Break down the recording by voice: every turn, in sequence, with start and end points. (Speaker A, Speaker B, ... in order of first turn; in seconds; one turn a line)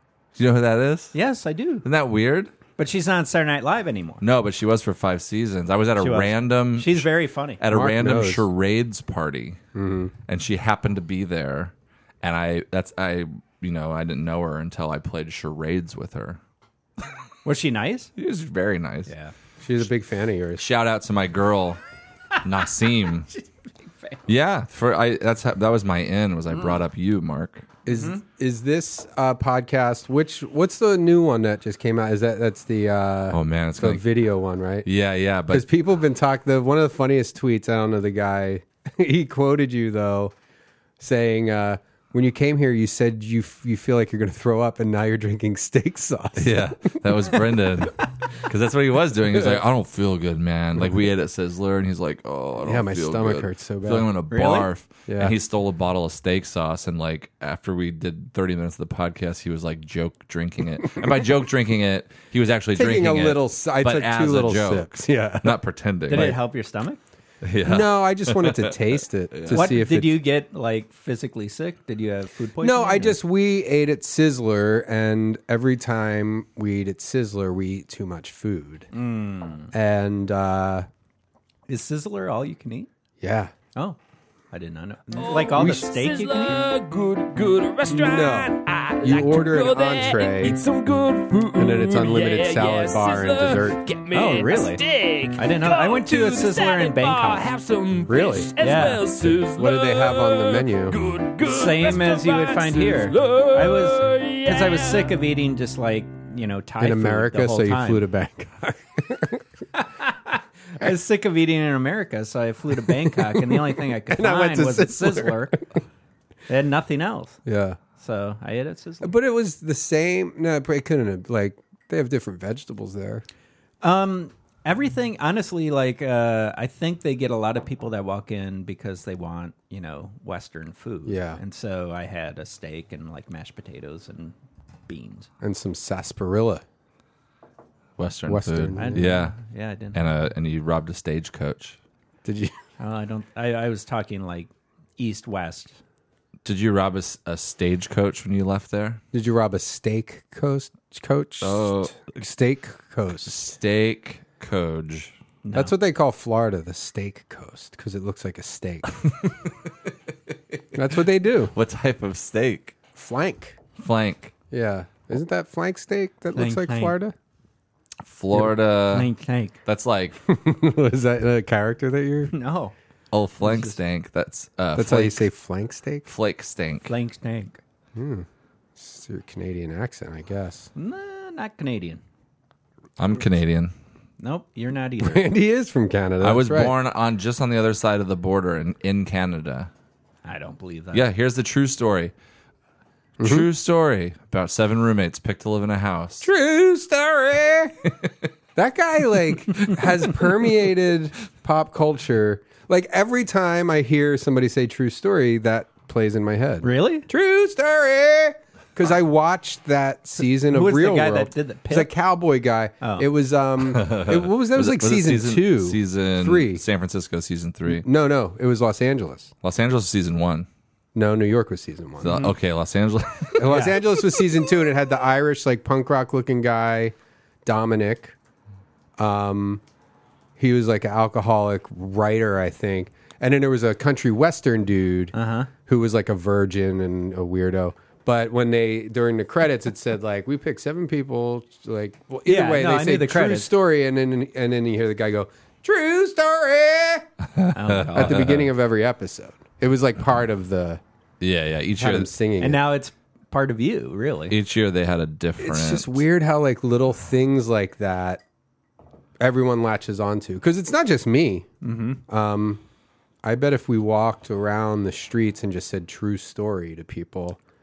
Speaker A: 0.4-1.1
Speaker B: 1.1-1.9
Speaker A: 1.8-2.5
Speaker B: 2.8-4.2
Speaker A: 4.2-7.1
Speaker B: 6.0-7.6
Speaker A: 7.6-9.6
Speaker C: 7.7-8.5
Speaker C: 9.8-10.1
Speaker A: 10.3-16.4
Speaker B: 17.4-18.1
Speaker A: 18.2-19.1
Speaker B: 19.1-19.3
Speaker C: 19.6-20.6
Speaker A: 20.6-21.8
Speaker A: 22.4-23.3
Speaker B: 23.3-24.2
Speaker A: 24.3-27.7
Speaker C: 27.9-34.9
Speaker B: 27.9-28.2
Speaker A: 33.3-34.0
Speaker A: 34.9-35.7
Speaker C: 35.5-40.3
Speaker C: 41.0-47.4
Speaker A: 46.4-66.4
Speaker C: 49.3-49.6
Speaker C: 52.6-54.1
Speaker B: 54.3-54.7
Speaker C: 55.1-55.4
Speaker C: 62.7-65.6
Speaker B: 66.1-67.0
Speaker A: 67.4-68.8
Speaker C: 67.6-70.2
Speaker A: 69.3-69.7
Speaker B: 69.5-73.2
Speaker C: 72.6-78.9
Speaker B: 78.9-79.7
Speaker C: 79.7-80.9
Speaker B: 81.7-82.9
Speaker C: 83.2-83.5
Speaker B: 84.5-86.7
Speaker D: 85.2-105.2
Speaker C: 85.6-85.8
Speaker C: 87.9-90.6
Speaker C: 91.5-93.8
Speaker B: 94.1-94.8
Speaker B: 95.4-97.5
Speaker C: 98.1-98.5
Speaker B: 98.6-99.0
Speaker C: 99.4-101.0
Speaker B: 101.4-108.0
Speaker C: 106.8-109.4
Speaker B: 109.7-115.6
Speaker C: 113.0-115.8
Speaker B: 116.5-117.4
Speaker C: 117.5-117.8
Speaker B: 118.0-119.1
Speaker C: 119.0-123.2
Speaker B: 123.8-134.3
Speaker C: 131.1-131.4
Speaker B: 134.9-135.3
Speaker C: 135.4-136.6
Speaker A: 138.0-139.3
Speaker C: 138.3-139.1
Speaker B: 138.8-140.0
Speaker A: 139.9-141.8
Speaker C: 142.2-142.6
Speaker B: 142.8-145.8
Speaker A: 146.4-149.0
Speaker C: 149.1-153.6
Speaker A: 151.4-152.0
Speaker A: 153.3-155.1
Speaker B: 155.4-155.7
Speaker C: 155.5-159.1
Speaker C: 160.7-161.5
Speaker A: 161.5-162.8
Speaker C: 162.9-163.6
Speaker A: 163.8-164.3
Speaker C: 164.5-167.2
Speaker B: 166.3-167.0
Speaker A: 168.0-169.1
Speaker B: 168.9-169.6
Speaker A: 169.7-170.2
Speaker C: 170.3-172.3
Speaker B: 172.3-172.7
Speaker A: 173.1-175.3
Speaker B: 173.4-173.8
Speaker C: 174.7-176.1
Speaker A: 176.1-176.9
Speaker B: 176.9-177.6
Speaker C: 177.9-180.7
Speaker B: 180.8-182.0
Speaker A: 183.0-183.7
Speaker B: 184.2-185.3
Speaker C: 185.0-186.7
Speaker A: 186.2-189.7
Speaker B: 190.2-191.1
Speaker A: 190.9-192.1
Speaker C: 193.2-193.5
Speaker A: 193.2-196.3
Speaker C: 196.2-197.8
Speaker C: 198.6-216.6
Speaker B: 206.6-207.1
Speaker B: 210.5-211.9
Speaker B: 212.8-213.1
Speaker A: 213.7-217.9
Speaker C: 217.7-219.3
Speaker A: 219.4-220.5
Speaker C: 220.9-222.3
Speaker A: 222.0-223.8
Speaker C: 223.4-228.2
Speaker C: 229.0-229.6
Speaker C: 230.4-235.1
Speaker B: 235.1-235.5
Speaker C: 235.7-247.1
Speaker B: 242.3-243.5
Speaker A: 247.4-248.5
Speaker B: 247.5-248.2
Speaker C: 247.9-250.8
Speaker A: 251.2-252.1
Speaker C: 251.8-252.6
Speaker B: 252.4-254.4
Speaker A: 254.3-256.0
Speaker C: 255.4-258.2
Speaker C: 259.2-261.5
Speaker B: 261.6-262.0
Speaker C: 262.1-262.6
Speaker C: 263.2-267.4